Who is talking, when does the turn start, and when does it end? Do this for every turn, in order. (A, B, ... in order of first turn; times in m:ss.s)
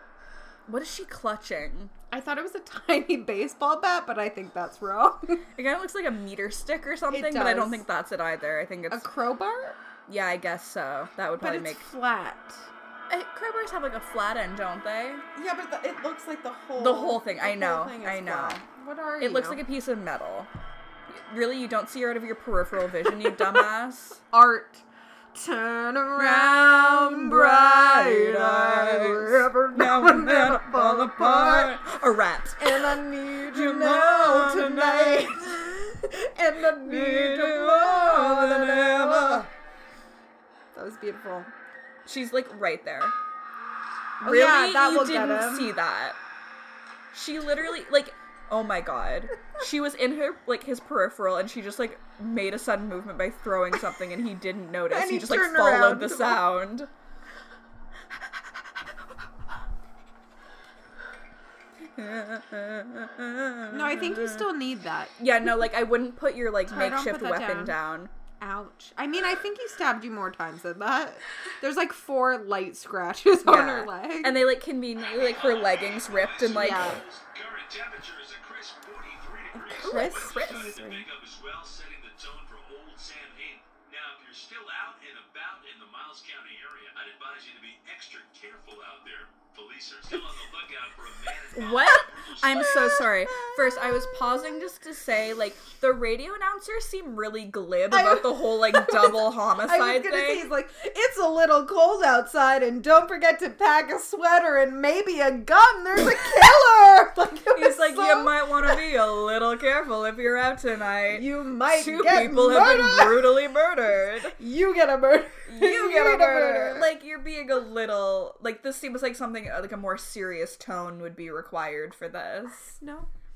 0:00.7-0:01.9 A
0:02.1-0:05.4 B
0:05.6-0:09.1 A
0:07.1-0:07.8 B
0:08.9-0:09.8 B
0:10.1-0:11.9 A
0:11.4-0:12.7 B
0:13.1-0:15.2 A
0:15.3-0:19.6 B
0:16.8-0:18.6 A
0:19.2-0:20.5 A
0:21.1-0:24.2 A
0:24.3-0:31.8 B
0:26.2-0:32.9 A
0:32.6-0:39.5 B
0:33.4-0:35.6 A
0:36.8-0:39.5 A
0:40.7-0:41.5 B
0:42.0-0:43.1 A
0:44.2-0:45.8 B
0:44.2-0:46.2 A
0:47.1-0:56.9 A
0:54.9-0:56.5 B
1:02.0-1:04.4 A
1:03.7-1:05.5 B
1:05.2-1:08.1 A
1:06.7-1:07.8 B
1:08.4-1:14.5 B
1:13.4-1:17.0 A
1:15.0-1:32.7 C
1:16.6-1:17.0 B
1:19.6-1:21.0 B
1:19.8-1:20.8 A
1:31.5-1:40.5 A
1:32.6-1:34.5 B
1:37.9-1:48.8 B
1:47.5-1:54.4 A
1:51.1-1:53.4 B
1:54.4-1:56.9 B
1:55.5-2:02.8 A
2:02.8-2:03.1 B